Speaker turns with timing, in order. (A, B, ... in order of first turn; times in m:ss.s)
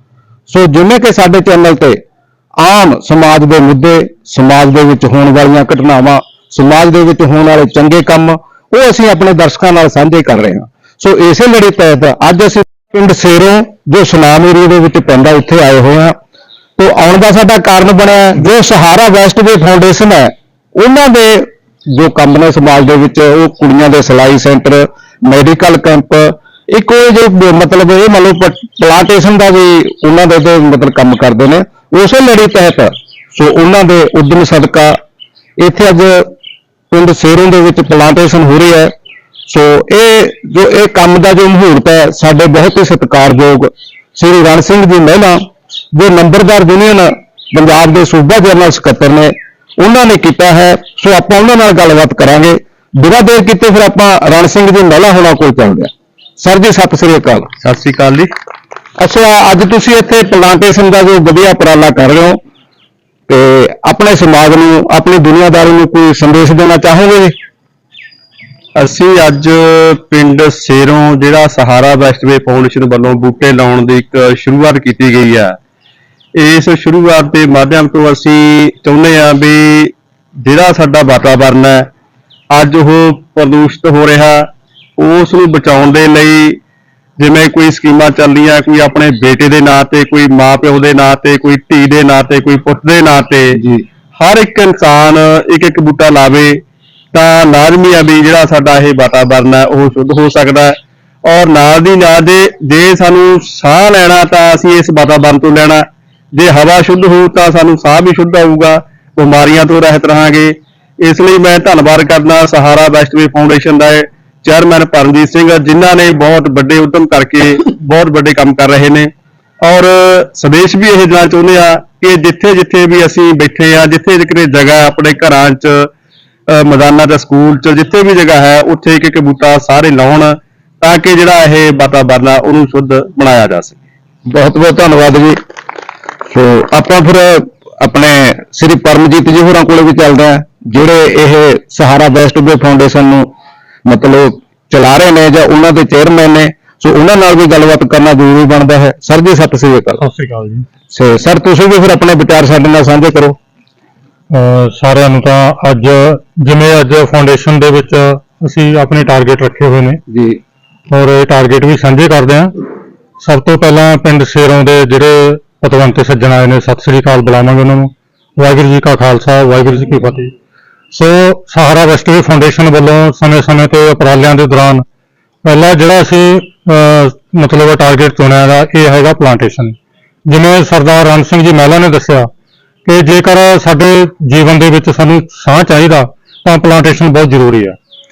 0:00.5-0:02.0 A
0:02.6-0:16.1 A
0:16.8-0:35.0 A
0:35.6-0:36.3 A
0:36.9-0:38.9 A
0:39.5-0:45.4 A
0:45.9-0:57.5 A
0:57.6-0:58.3 B
0:59.0-1:02.4 A
1:03.3-1:07.3 A
1:08.8-1:15.5 B
1:16.4-1:19.9 B
1:20.4-1:21.8 B
1:22.5-1:24.4 B
1:25.0-1:26.6 B
1:27.2-1:33.6 B
1:34.2-1:36.5 B
1:37.1-1:40.8 B
1:41.3-1:45.8 B
1:46.3-1:59.1 B
1:59.6-2:05.9 B
2:06.5-2:13.8 B
2:14.3-2:15.4 A
2:16.3-2:23.3 A
2:23.8-2:30.0 A
2:30.0-2:30.6 C
2:30.9-2:33.4 A
2:34.3-2:40.0 C
2:40.9-2:42.5 C
2:43.2-2:50.3 C
2:50.9-2:54.8 C
2:55.4-3:02.3 C
3:02.8-3:07.8 C